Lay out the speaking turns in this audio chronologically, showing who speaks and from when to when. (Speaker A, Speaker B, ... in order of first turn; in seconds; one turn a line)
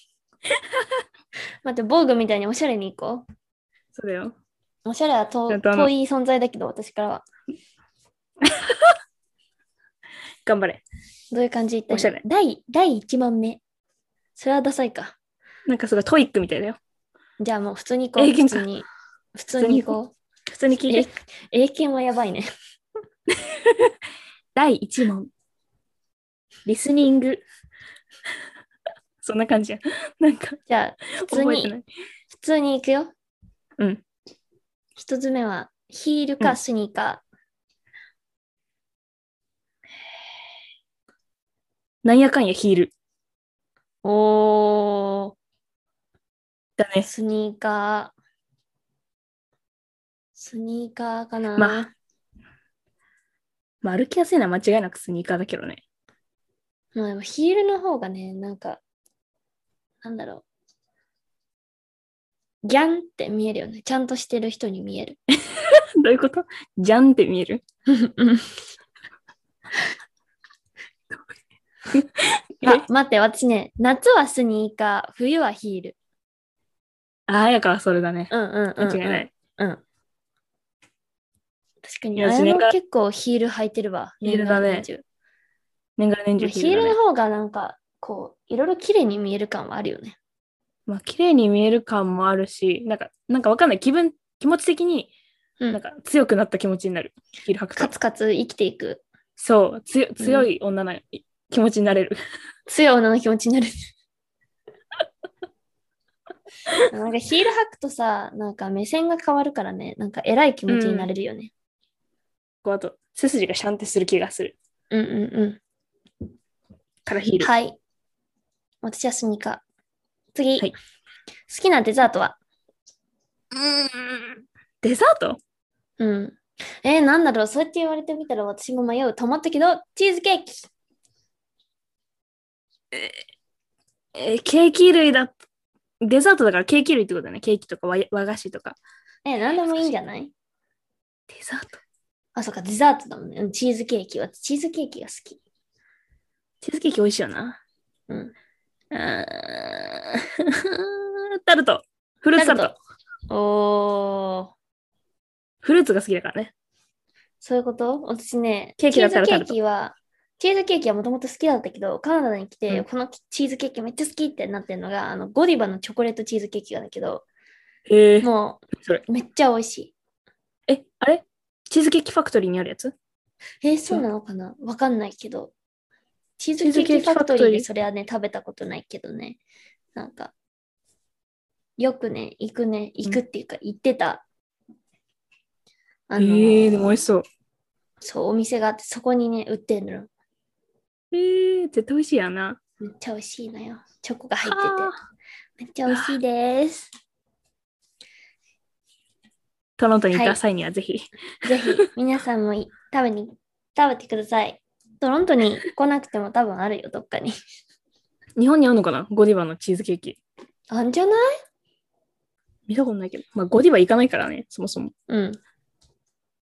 Speaker A: 0.6-0.9
Speaker B: 1.6-3.2
Speaker A: 4.0-4.3
Speaker B: 4.9-7.2
Speaker A: 5.5-5.9
Speaker A: 8.4-8.9
Speaker A: 10.5-10.8
Speaker B: 11.3-13.6
Speaker A: 11.9-12.2
Speaker B: 14.4-15.2
Speaker A: 15.7-16.8
Speaker B: 17.4-20.1
Speaker A: 18.2-18.7
Speaker A: 19.6-20.0
Speaker A: 20.5-21.1
Speaker B: 20.9-22.5
Speaker A: 23.3-23.9
Speaker A: 24.6-25.3
Speaker A: 26.7-27.4
Speaker A: 29.2-30.6
Speaker B: 30.7-31.7
Speaker A: 31.2-31.9
Speaker B: 32.3-33.1
Speaker B: 35.0-37.2
Speaker A: 42.0-42.9
Speaker B: 44.0-45.3
Speaker A: 46.8-47.1
Speaker B: 47.0-48.1
Speaker B: 50.4-51.9
Speaker A: 51.6-51.9
Speaker A: 53.8-55.8
Speaker B: 57.0-58.8
Speaker B: 60.0-60.4
Speaker B: 62.6-65.2
Speaker A: 65.5-67.6
Speaker B: 67.9-68.5
Speaker A: 71.9-72.8
Speaker B: 72.6-76.0
Speaker A: 77.3-79.3
Speaker B: 78.3-79.8
Speaker B: 81.8-85.0
Speaker A: 82.2-82.7
Speaker A: 84.2-84.9
Speaker A: 86.0-87.0
Speaker B: 86.4-90.2
Speaker A: 90.9-95.1
Speaker A: 95.7-97.9
Speaker B: 97.8-99.0
Speaker A: 99.4-102.2
Speaker B: 100.2-100.5
Speaker B: 102.7-103.7
Speaker B: 106.8-111.5
Speaker A: 110.7-111.1
Speaker A: 112.6-114.5
Speaker B: 114.9-115.6
Speaker A: 117.1-117.5
Speaker B: 117.4-117.8
Speaker B: 118.8-119.6
Speaker B: 120.3-120.7
Speaker B: 121.5-122.4
Speaker A: 123.5-125.4
Speaker B: 126.0-130.7
Speaker A: 132.9-133.2
Speaker A: 134.1-135.3
Speaker A: 136.0-138.8
Speaker B: 139.2-140.3
Speaker A: 141.3-141.8
Speaker B: 142.4-145.4
Speaker A: 146.6-147.6
Speaker B: 148.1-148.3
Speaker A: 148.9-152.8
Speaker B: 152.4-152.8
Speaker B: 153.3-154.5
Speaker A: 155.6-156.5
Speaker B: 157.4-167.2
Speaker A: 158.8-159.6
Speaker A: 167.9-168.3
Speaker B: 168.2-169.9
Speaker A: 170.7-172.9
Speaker B: 173.6-175.5
Speaker B: 176.4-179.4
Speaker A: 176.6-177.7
Speaker B: 179.9-180.3
Speaker B: 181.8-184.2
Speaker B: 186.1-187.0
Speaker A: 186.2-187.2
Speaker B: 188.0-190.1
Speaker A: 191.1-192.6
Speaker B: 192.8-194.9
Speaker A: 194.4-195.0
Speaker B: 195.6-196.9
Speaker A: 195.9-196.2
Speaker A: 199.8-201.1
Speaker B: 200.1-200.4
Speaker B: 201.4-207.3
Speaker A: 208.4-210.2
Speaker B: 210.7-211.3
Speaker A: 212.7-214.9
Speaker B: 215.1-215.4